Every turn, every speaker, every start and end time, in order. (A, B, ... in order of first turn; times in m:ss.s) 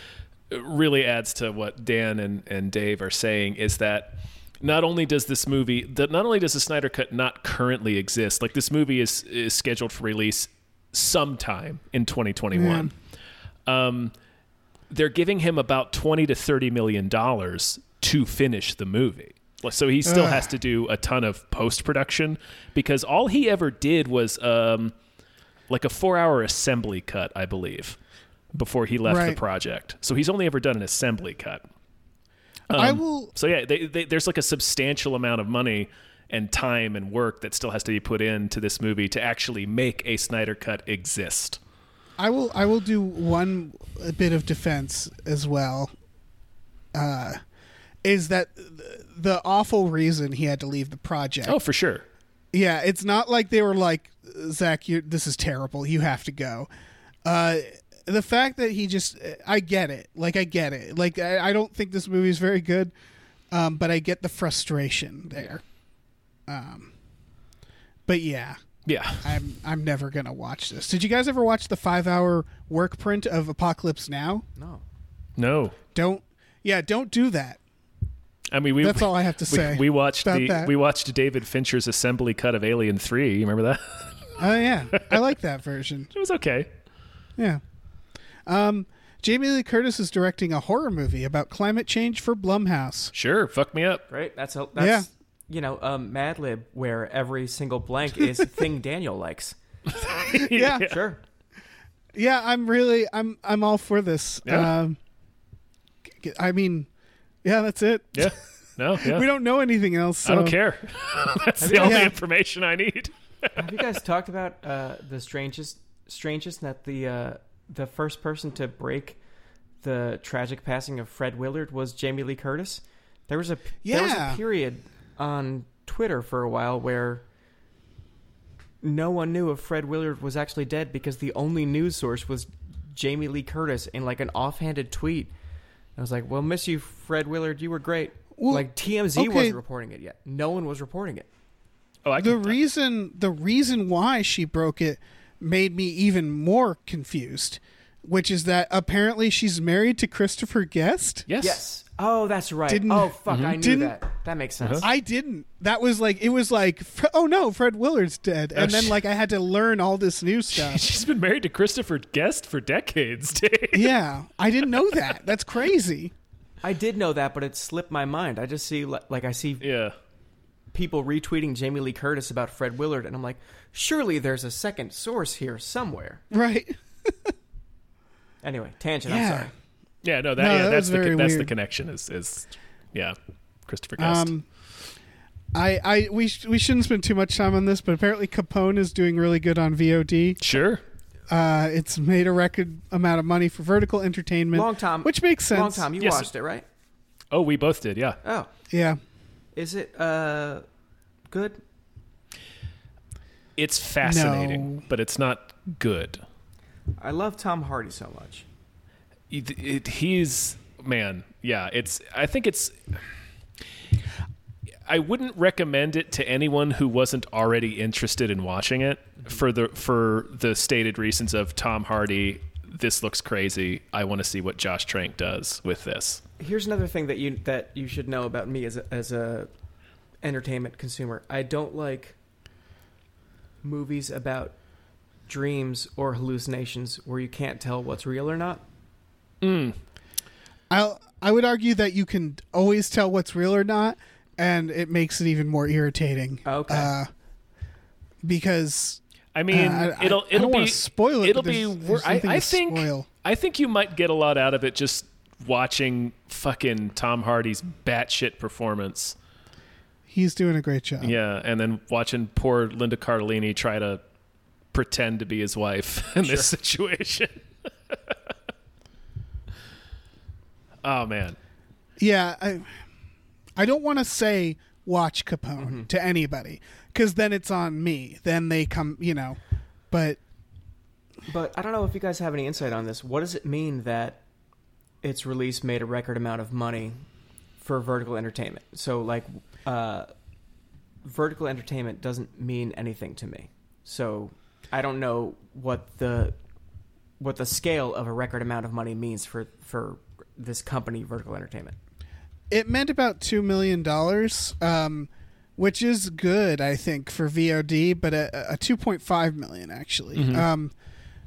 0:00.5-0:12.9 A
0:12.5-0:12.9 B
0:13.6-0:14.1 A
0:14.9-0:25.0 A
0:20.0-0:20.5 B
0:25.7-0:28.0 A
0:28.5-0:31.6 A
0:29.0-0:29.4 B
0:32.7-0:41.6 A
0:32.7-0:33.3 B
0:42.2-0:45.9 B
0:46.9-0:47.4 B
0:48.0-0:51.6 B
0:51.4-0:52.0 A
0:52.5-0:56.7 B
0:57.2-1:02.9 B
1:03.5-1:05.6 B
1:06.5-1:06.9 B
1:08.1-1:08.6 B
1:08.8-1:09.4 A
1:09.2-1:14.4 B
1:14.6-1:14.8 C
1:15.4-1:15.8 A
1:15.9-1:17.6 B
1:18.5-1:24.4 A
1:18.8-1:20.7 B
1:24.4-1:26.1 B
1:26.1-1:26.7 A
1:28.4-1:33.1 B
1:33.1-1:34.0 A
1:34.1-1:39.5 C
1:34.8-1:35.1 B
1:39.9-1:41.0 A
1:40.3-1:40.9 B
1:40.8-1:41.2 C
1:42.1-1:45.0 B
1:44.4-1:44.7 A
1:46.2-1:46.9 B
1:47.4-1:48.3 B
1:48.1-1:49.2 A
1:49.0-1:50.6 B
1:50.2-1:53.6 A
1:51.6-1:52.1 C
1:51.8-1:52.1 B
1:53.6-1:59.2 C
1:59.8-2:07.2 C
2:03.8-2:04.4 B
2:08.8-2:15.3 C
2:16.0-2:21.3 C
2:18.4-2:19.6 B
2:22.0-2:22.6 A
2:22.2-2:31.2 B
2:31.3-2:31.6 A
2:31.4-2:34.9 C
2:32.7-2:33.9 B
2:34.8-2:40.8 B
2:38.5-2:38.9 A
2:40.5-2:43.9 A
2:43.7-2:46.1 B
2:46.6-2:49.6 C
2:49.6-2:49.9 A
2:50.7-2:56.2 C
2:56.3-2:57.3 B
2:58.4-2:59.5 C
2:59.0-2:59.5 B
3:00.0-3:04.3 A
3:00.4-3:01.5 B
3:04.0-3:04.4 B
3:05.5-3:10.4 B
3:10.4-3:10.8 A
3:11.3-3:15.9 B
3:14.5-3:16.6 C
3:16.0-3:16.3 A
3:17.3-3:18.2 A
3:18.2-3:18.5 C
3:18.7-3:19.0 B
3:19.5-3:20.6 C
3:21.3-3:21.6 C
3:23.6-3:26.2 A
3:24.0-3:24.8 B
3:27.0-3:28.4 C
3:29.3-3:33.0 A
3:34.8-3:46.2 A
3:46.4-3:49.5 C
3:50.2-3:52.2 C
3:53.6-3:54.6 C
3:55.3-3:58.6 C
3:59.4-3:59.8 A
4:00.7-4:07.1 B
4:06.4-4:06.9 C
4:08.2-4:13.1 B
4:09.3-4:19.2 A
4:20.1-4:21.2 B
4:21.0-4:24.0 A
4:24.7-4:28.2 A
4:26.2-4:26.5 C
4:30.8-4:31.4 A
4:32.0-4:32.7 B
4:33.6-4:39.4 B
4:35.6-4:35.9 C
4:39.9-4:40.2 B
4:41.3-4:44.2 C
4:45.0-4:47.0 C
4:47.6-4:50.1 C
4:51.0-4:56.3 C
4:57.2-5:01.7 C
5:02.5-5:10.7 B
5:10.1-5:10.4 A